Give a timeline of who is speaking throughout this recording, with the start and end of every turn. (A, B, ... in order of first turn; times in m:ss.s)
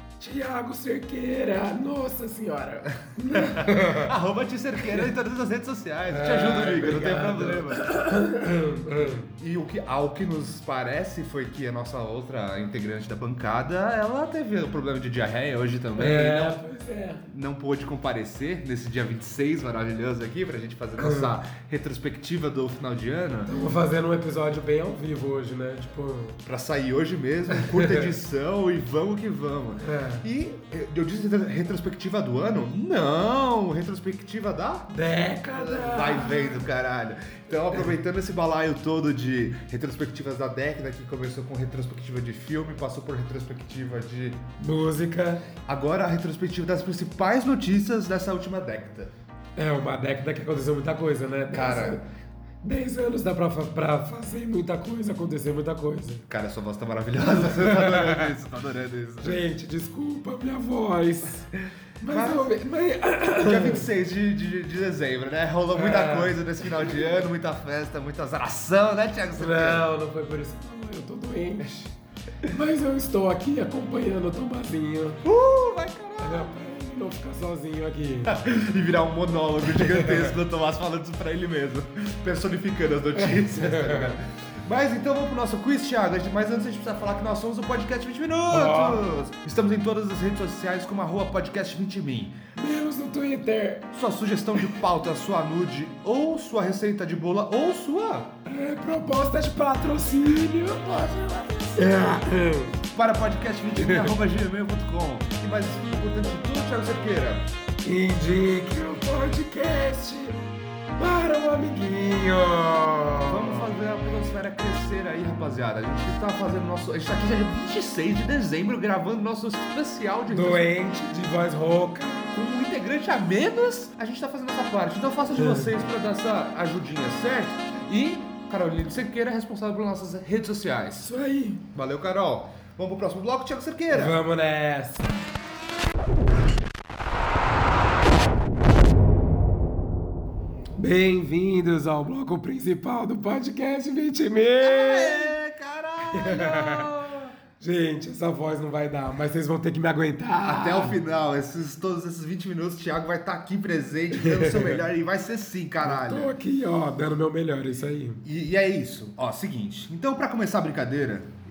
0:00.2-0:04.1 A
0:03.3-0:07.9 B
0:06.1-0:09.3 A
0:09.3-0:16.6 B
0:16.0-0:17.2 A
0:17.3-0:23.5 B
0:21.0-0:21.4 A
0:23.5-0:26.4 A
0:26.4-0:34.9 B
0:27.6-0:28.0 A
0:29.8-0:30.3 A
0:34.9-0:36.7 A
0:35.5-0:44.4 B
0:44.6-0:45.5 A
0:45.6-0:49.1 B
0:49.6-0:52.0 A
0:51.5-0:52.0 B
0:52.6-0:56.3 A
0:56.3-0:59.4 B
0:57.2-0:58.3 A
0:59.2-1:01.5 A
1:02.0-1:03.9 A
1:02.1-1:02.5 B
1:03.4-1:09.9 B
1:05.7-1:06.8 A
1:09.4-1:11.9 A
1:12.4-1:15.2 A
1:15.2-1:16.5 B
1:16.2-1:18.3 A
1:18.2-1:32.4 B
1:19.8-1:20.3 A
1:23.2-1:24.2 A
1:28.5-1:29.0 A
1:32.6-1:33.9 A
1:33.9-1:38.3 B
1:38.4-1:42.8 A
1:41.5-1:42.1 B
1:42.9-1:47.5 B
1:43.8-1:44.1 A
1:47.8-1:50.4 A
1:51.0-1:53.7 A
1:53.3-2:00.7 B
2:00.3-2:02.6 A
2:02.4-2:11.1 B
2:05.4-2:05.8 A
2:11.0-2:11.6 A
2:11.7-2:14.2 B
2:13.9-2:15.3 A
2:20.8-2:25.3 A
2:24.6-2:27.3 B
2:26.1-2:26.9 A
2:27.6-2:31.0 A
2:30.4-2:36.3 B
2:34.1-2:34.8 A
2:35.8-2:38.2 A
2:38.2-2:41.3 B